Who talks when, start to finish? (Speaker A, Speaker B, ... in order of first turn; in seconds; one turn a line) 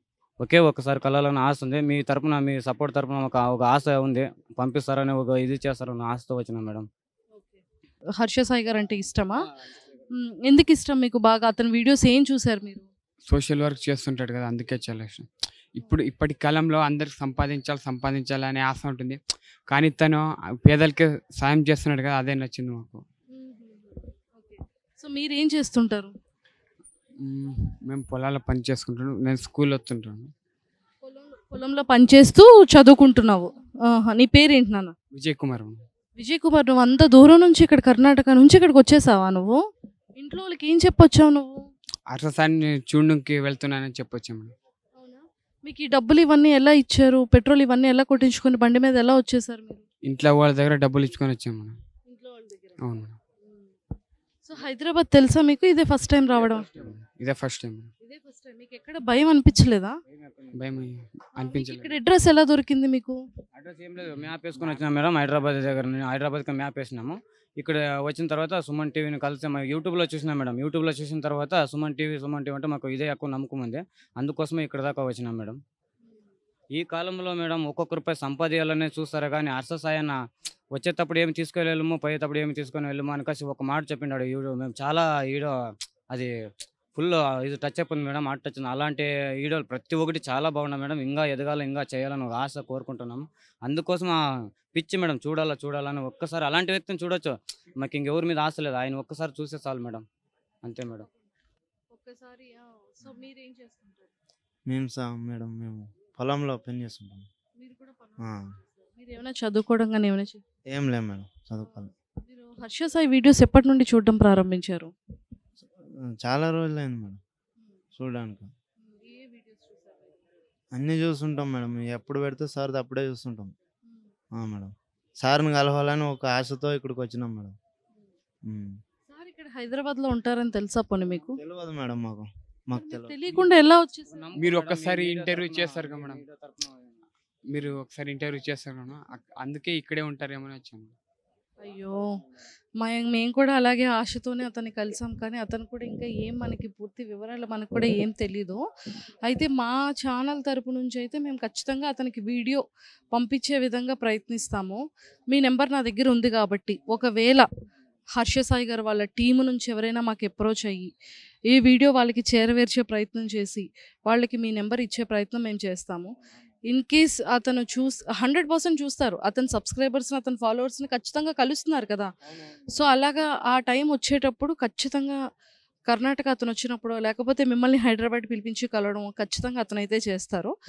Speaker A: 0.4-6.9
Speaker B: 8.2-9.4
Speaker B: 10.1-12.9
Speaker C: 13.2-23.0
Speaker B: 23.3-26.1
Speaker C: 27.2-30.3
Speaker B: 31.0-34.9
Speaker C: 35.1-35.8
Speaker B: 36.2-39.6
Speaker B: 40.2-41.5
Speaker C: 42.1-44.5
Speaker B: 45.0-49.9
Speaker C: 50.0-51.8
Speaker B: 52.1-52.8
Speaker C: 52.8-53.2
Speaker B: 54.5-56.7
Speaker A: 56.5-56.9
Speaker C: 56.8-57.9
Speaker B: 58.0-60.0
Speaker A: 60.1-60.5
Speaker C: 60.5-61.9
Speaker B: 61.4-63.2
Speaker A: 63.5-75.6
Speaker A: 76.7-80.2
Speaker A: 80.7-85.5
Speaker A: 87.0-94.2
Speaker A: 94.7-100.0
Speaker A: 100.6-101.1
Speaker B: 101.9-104.1
Speaker D: 104.7-107.3
Speaker B: 107.6-110.4
Speaker D: 110.7-111.9
Speaker B: 111.7-114.9
Speaker D: 116.0-117.2
Speaker D: 118.0-118.5
Speaker B: 118.8-120.2
Speaker D: 120.7-123.5
Speaker D: 124.3-127.5
Speaker D: 128.5-128.8
Speaker B: 129.1-131.4
Speaker D: 131.4-133.3
Speaker B: 132.7-134.2
Speaker A: 134.1-136.9
Speaker C: 134.3-136.2
Speaker C: 137.5-140.9
Speaker B: 141.6-142.0
Speaker B: 142.8-148.6
Speaker B: 149.2-157.5
Speaker B: 158.2-160.9
Speaker B: 161.5-166.1
Speaker B: 166.7-172.1
Speaker B: 172.7-175.2
Speaker B: 175.9-180.5